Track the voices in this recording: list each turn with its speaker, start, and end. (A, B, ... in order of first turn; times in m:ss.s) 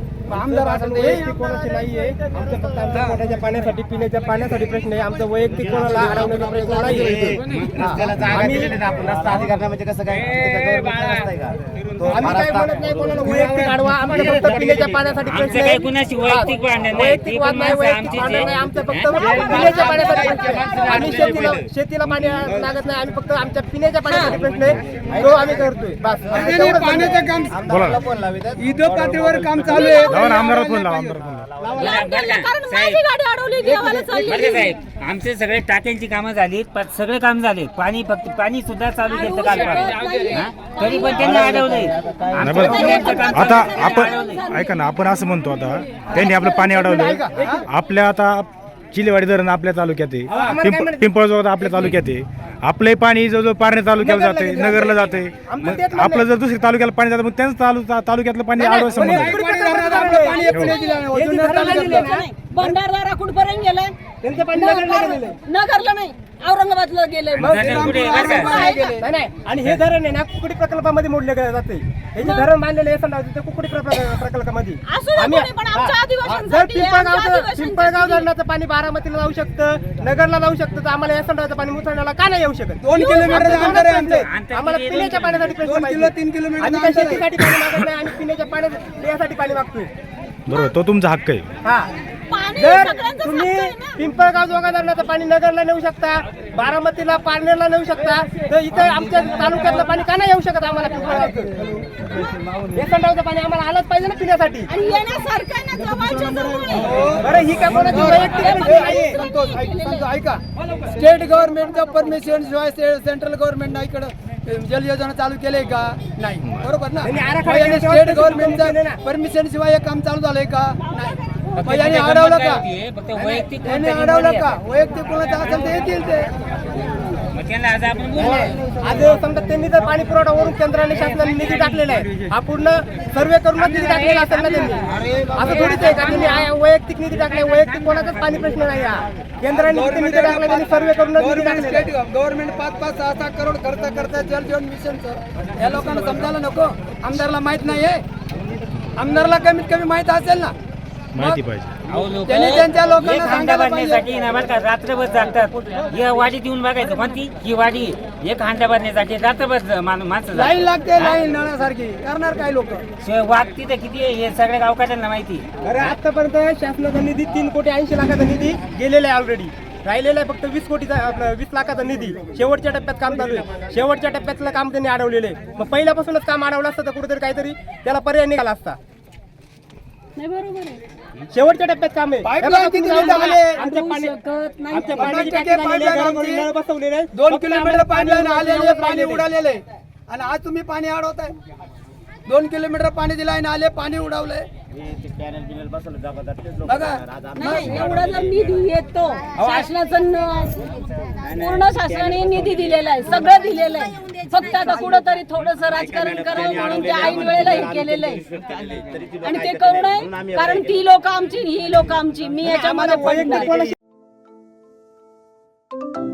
0:00.3-0:08.8 A
0:00.3-0:01.3 B
0:07.4-0:07.9 C
0:07.9-0:11.6 D
0:10.1-0:11.3 C
0:12.0-0:27.4 A
0:12.2-0:13.6 D
0:14.1-0:14.5 D
0:15.2-0:19.6 C
0:19.5-0:20.9 E
0:20.7-0:21.7 C
0:24.0-0:24.4 E
0:26.3-0:27.7 B
0:27.6-0:28.0 F
0:27.6-0:29.3 D
0:28.5-0:31.7 B
0:29.7-0:30.5 E
0:30.0-0:31.5 F
0:31.8-0:33.0 C
0:31.8-0:34.5 E
0:34.2-0:44.4 C
0:34.4-0:34.7 B
0:39.1-0:41.3 E
0:40.0-0:40.3 B
0:41.3-0:41.8 D
0:42.4-0:59.4 F
0:42.6-0:44.8 E
0:46.2-0:47.6 A
0:50.3-0:51.1 A
0:51.6-0:51.9 A
0:54.0-0:56.3 A
0:58.6-1:02.8 A
0:59.0-1:02.2 B
1:00.1-1:01.1 E
1:00.5-1:00.8 F
1:02.0-1:03.9 E
1:04.2-1:05.4 A
1:04.5-1:09.0 E
1:07.3-1:08.7 C
1:07.4-1:29.9 A
1:07.4-1:09.0 B
1:12.2-1:12.5 E
1:14.9-1:18.2 E
1:22.8-1:24.2 B
1:22.9-1:23.4 E
1:24.1-1:25.6 C
1:25.6-1:27.3 B
1:30.5-1:31.5 F
1:31.6-1:31.9 A
1:32.3-1:34.0 E
1:32.5-1:41.6 A
1:42.7-1:44.7 A
1:44.7-1:47.2 E
1:46.0-2:02.6 B
1:47.2-1:49.2 A
1:48.3-1:50.1 E
1:57.0-1:59.0 A
2:01.5-2:04.5 C
2:03.2-2:06.3 B
2:07.3-2:08.6 C
2:08.2-2:21.9 A
2:13.6-2:14.4 B
2:15.4-2:16.0 B
2:19.5-2:28.0 B
2:29.0-2:30.5 B
2:31.1-2:31.7 F
2:31.8-2:41.2 C
2:32.2-2:34.0 B
2:40.3-2:42.8 B
2:43.0-2:45.5 C
2:45.6-2:58.8 A
3:00.2-3:00.8 E
3:01.3-3:04.1 A
3:02.2-3:03.6 B
3:02.9-3:05.2 E
3:04.7-3:09.3 A
3:04.9-3:06.5 B
3:07.1-3:11.3 B
3:12.3-3:14.5 B
3:15.3-3:16.5 D
3:16.6-3:17.8 B
3:17.3-3:20.6 E
3:21.2-3:28.3 E
3:28.4-3:29.2 D
3:29.1-3:33.6 E
3:32.6-3:33.7 A